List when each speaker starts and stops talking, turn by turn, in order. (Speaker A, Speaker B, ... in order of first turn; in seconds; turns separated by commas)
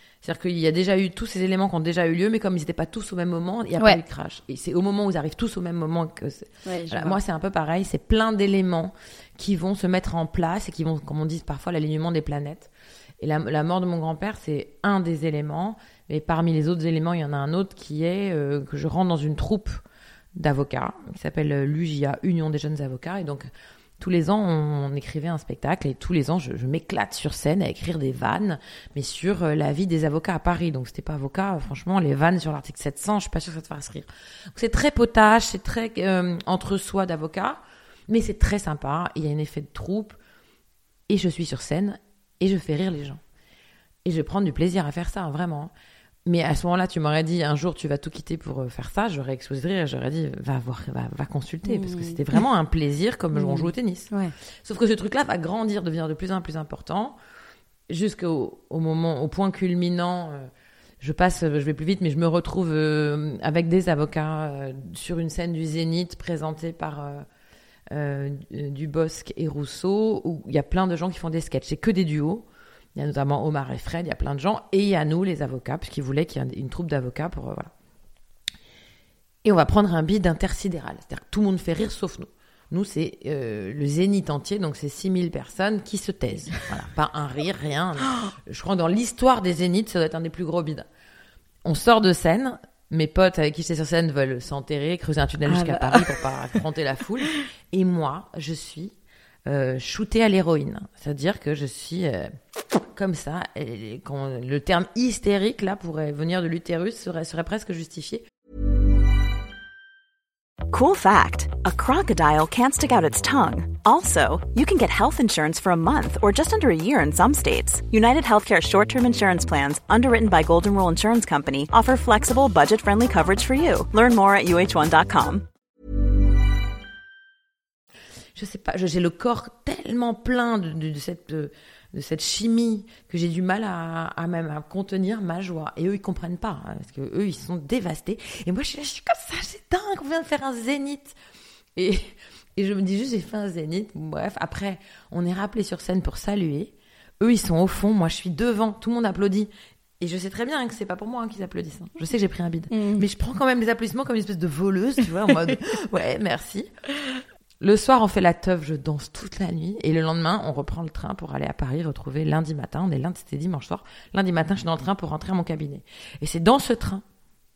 Speaker A: 0.2-19.8, Speaker B: 6.6-7.2, Speaker A: 20.4-40.2, Speaker A: 41.1-43.2, Speaker A: 44.0-45.7, Speaker A: 46.2-54.1, Speaker B: 51.7-52.4, Speaker B: 53.3-54.3, Speaker A: 54.6-57.2, Speaker A: 57.9-60.5, Speaker A: 61.0-67.2, Speaker A: 67.9-77.7, Speaker A: 79.4-90.8, Speaker A: 91.6-98.9, Speaker B: 95.5-96.1, Speaker A: 99.5-102.3, Speaker A: 102.9-108.2, Speaker C: 110.7-125.5, Speaker A: 128.3-141.2, Speaker A: 141.8-156.7, Speaker B: 152.7-153.0, Speaker A: 157.6-167.0